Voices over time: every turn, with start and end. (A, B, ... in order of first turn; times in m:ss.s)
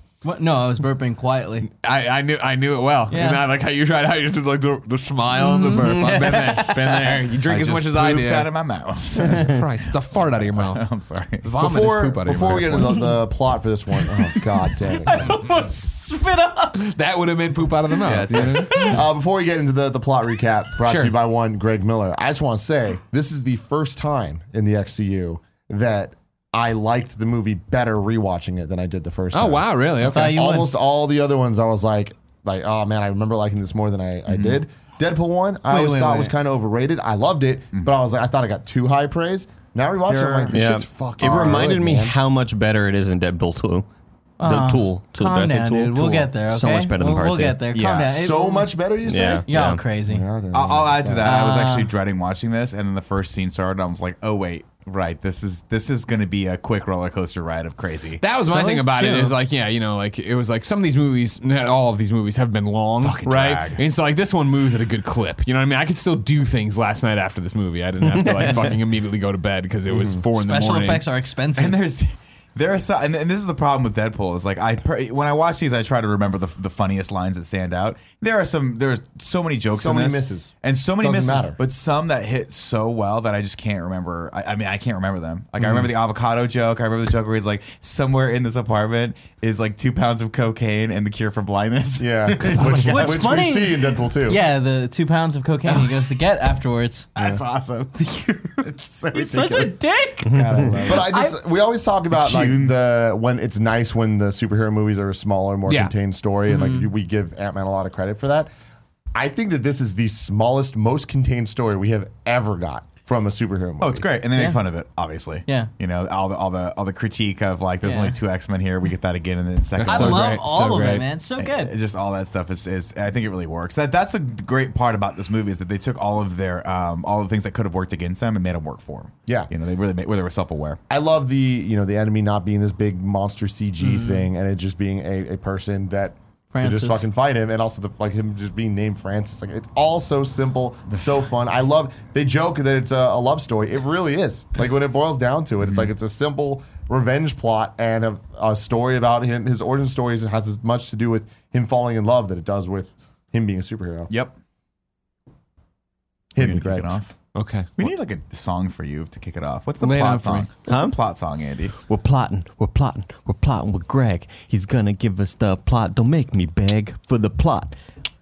0:00.2-0:01.7 A
0:01.6-0:08.5 B
0:03.1-0:03.4 A
0:05.4-0:05.9 A
0:05.8-0:06.6 C
0:06.5-0:09.5 D
0:09.2-0:10.8 B
0:09.2-0:09.6 C
0:10.1-0:11.4 D
0:11.4-0:13.1 B
0:11.6-0:15.4 E
0:14.8-0:16.8 A
0:16.7-0:19.0 B
0:18.0-0:19.0 D
0:18.6-0:42.2 E
0:20.8-0:21.1 B
0:29.3-0:30.4 B
0:30.0-0:30.7 A
0:34.3-0:34.6 D
0:35.7-0:36.3 A
0:40.1-0:40.6 D
0:40.5-0:43.9 C
0:41.2-0:41.6 D
0:44.4-0:48.7 A
0:44.4-0:47.6 C
0:47.7-0:48.2 D
0:48.0-0:51.3 E
0:49.0-0:49.8 C
0:49.5-0:50.2 A
0:50.5-0:58.2 D
0:51.2-0:51.9 A
0:58.2-1:11.0 B
0:58.4-0:59.3 A
1:03.0-1:03.8 D
1:08.1-1:08.7 C
1:09.9-1:10.2 E
1:10.3-1:11.8 A
1:11.5-1:33.4 D
1:19.7-1:21.6 E
1:25.6-1:25.9 E
1:32.0-1:34.4 E
1:32.7-1:37.1 A
1:35.6-1:36.0 D
1:37.1-1:41.1 D
1:37.2-1:37.4 E
1:39.1-1:41.3 A
1:40.2-1:40.7 C
1:40.8-1:48.5 E
1:42.1-1:42.8 D
1:46.5-1:46.9 A
1:49.1-1:54.1 E
1:53.8-2:00.4 D
1:57.8-1:58.2 A
1:59.8-2:01.1 B
1:59.8-2:01.7 A
2:01.4-2:10.8 D
2:10.9-2:34.1 E
2:13.8-2:14.3 A
2:16.5-2:17.0 A
2:34.1-2:34.3 D
2:36.3-2:37.0 E
2:36.4-2:37.1 D
2:37.3-2:37.7 B
2:37.8-2:41.8 D
2:39.8-2:40.5 B
2:40.6-2:41.0 C
2:41.8-2:47.8 C